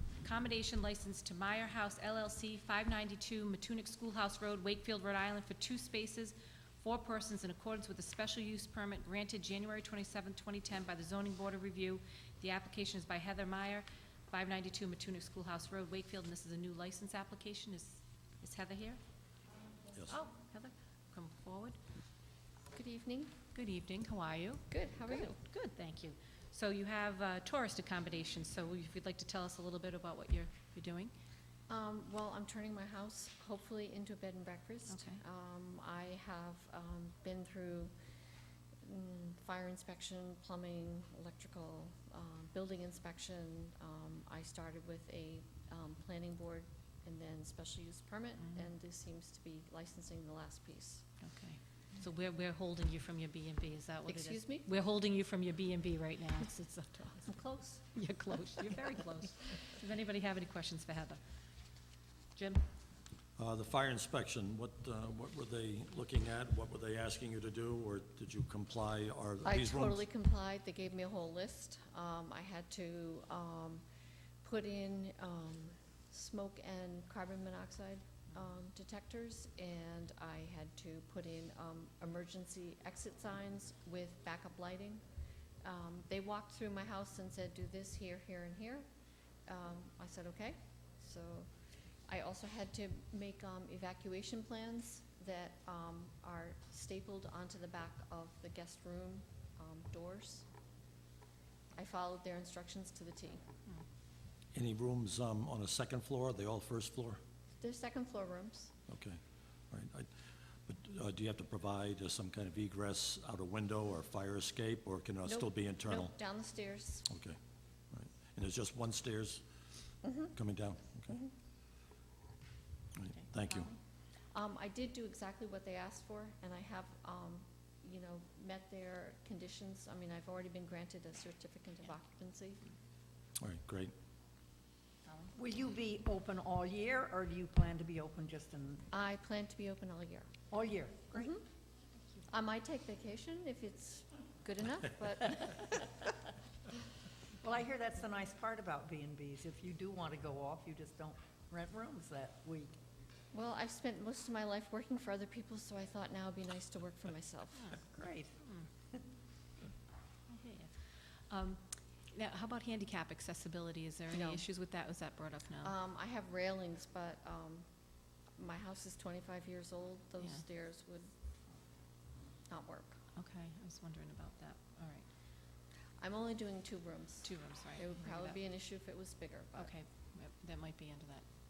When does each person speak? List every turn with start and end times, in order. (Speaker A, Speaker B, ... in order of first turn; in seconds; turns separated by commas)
Speaker A: 0.2-19.0, Speaker A: 20.1-21.8, Speaker B: 22.7-23.3, Speaker A: 23.5-31.1, Speaker B: 24.7-25.4, Speaker B: 31.7-37.9, Speaker A: 34.9-35.2, Speaker B: 38.8-51.0, Speaker A: 51.2-61.2, Speaker B: 54.1-54.7, Speaker B: 57.3-57.8, Speaker A: 62.4-62.6, Speaker C: 63.4-70.0, Speaker B: 69.4-73.8, Speaker B: 74.4-85.0, Speaker B: 85.6-88.8, Speaker B: 89.5-91.5, Speaker B: 92.1-100.5, Speaker B: 101.7-103.4, Speaker C: 104.5-107.2, Speaker B: 107.6-108.7, Speaker C: 108.9-109.2, Speaker C: 109.7-110.1, Speaker C: 110.7-116.1, Speaker B: 115.2-117.1, Speaker C: 117.1-117.4, Speaker C: 117.9-119.4, Speaker B: 120.0-120.3, Speaker C: 120.3-121.2, Speaker C: 123.0-123.7, Speaker A: 123.1-123.7, Speaker B: 124.3-132.6, Speaker C: 133.4-133.9, Speaker D: 135.3-138.8, Speaker B: 138.9-140.3, Speaker D: 140.5-141.4, Speaker B: 141.1-141.4, Speaker B: 142.3-146.1, Speaker D: 147.4-152.7, Speaker B: 153.3-157.7, Speaker A: 157.5-157.8, Speaker D: 157.9-158.3, Speaker A: 158.4-158.7, Speaker A: 160.3-165.7, Speaker B: 164.1-164.4, Speaker B: 165.6-167.7, Speaker B: 168.4-171.1, Speaker B: 172.5-173.0, Speaker A: 173.2-175.0, Speaker B: 176.0-179.7, Speaker A: 177.2-178.3, Speaker A: 179.6-181.2